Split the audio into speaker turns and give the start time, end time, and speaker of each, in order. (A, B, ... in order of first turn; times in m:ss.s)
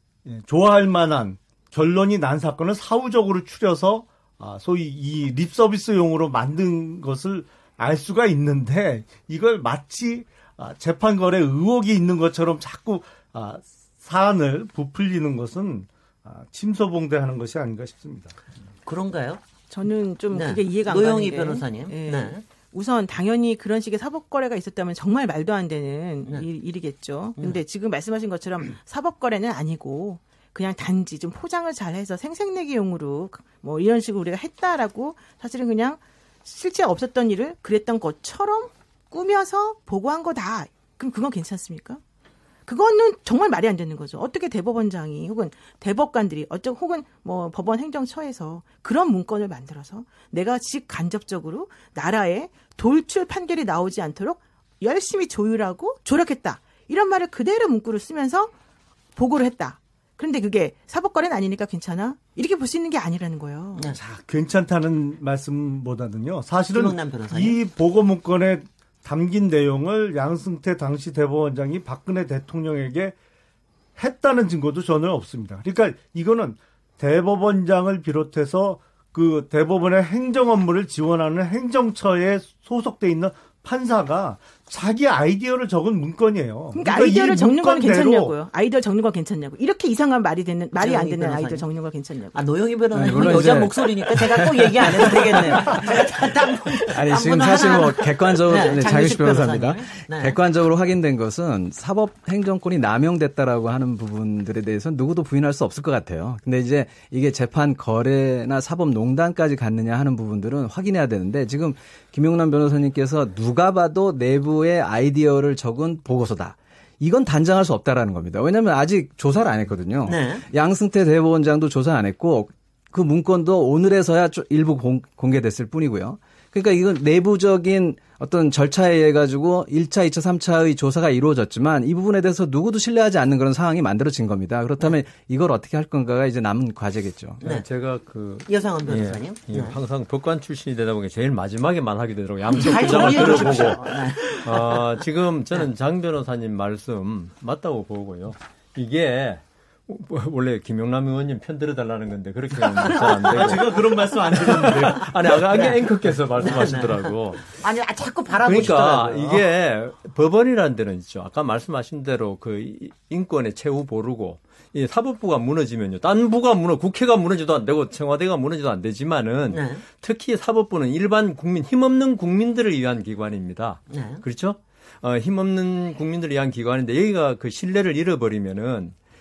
0:00.2-0:18.3 A
0:18.8-0:19.4 B
0:19.7-0:42.0 C
0:20.3-0:22.4 B
0:42.6-0:58.5 C
0:59.2-1:03.9 C
1:03.9-1:13.1 A
1:06.7-1:07.6 B
1:14.0-1:28.3 A
1:26.7-1:32.4 C
1:30.8-1:31.6 B
1:32.3-1:40.4 B
1:32.9-1:36.1 D
1:36.8-2:17.4 D
2:00.0-2:00.4 B
2:17.4-2:37.6 E
2:18.4-2:19.8 B
2:22.5-2:24.8 B
2:32.8-2:35.8 B
2:33.3-2:35.1 A
2:36.4-2:39.4 B
2:38.4-2:58.9 E
2:49.5-2:49.8 B
2:53.9-2:54.2 B